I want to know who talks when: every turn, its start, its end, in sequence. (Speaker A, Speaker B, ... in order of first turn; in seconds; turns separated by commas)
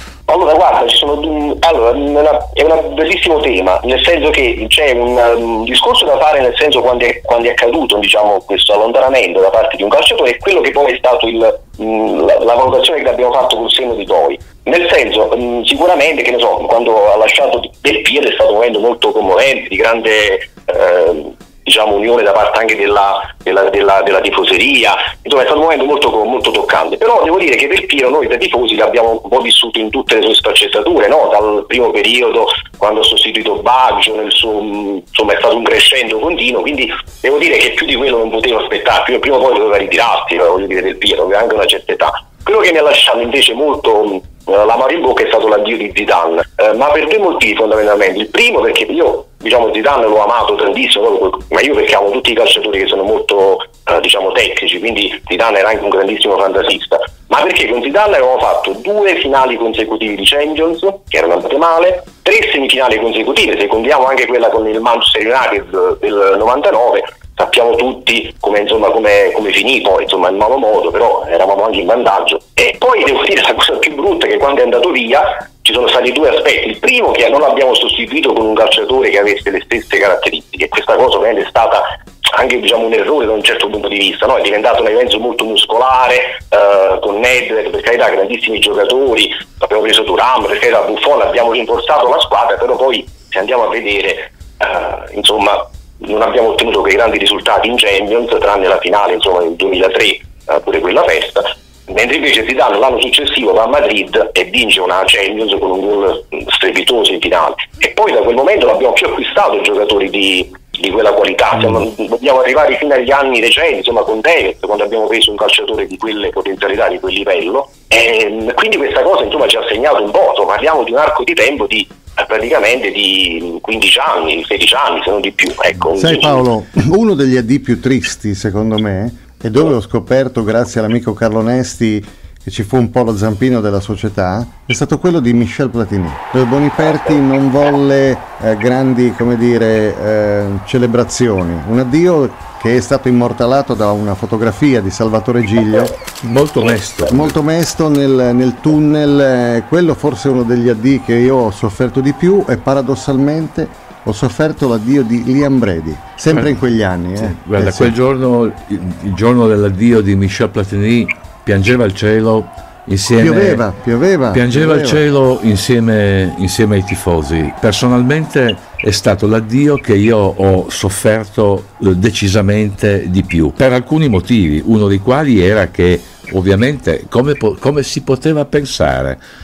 Speaker A: 0.3-126.4, Speaker B: 111.6-111.8, Speaker B: 125.9-145.9, Speaker C: 146.2-147.3, Speaker B: 147.1-157.9, Speaker C: 156.3-156.6, Speaker C: 157.2-163.6, Speaker B: 163.2-165.0, Speaker C: 164.3-179.2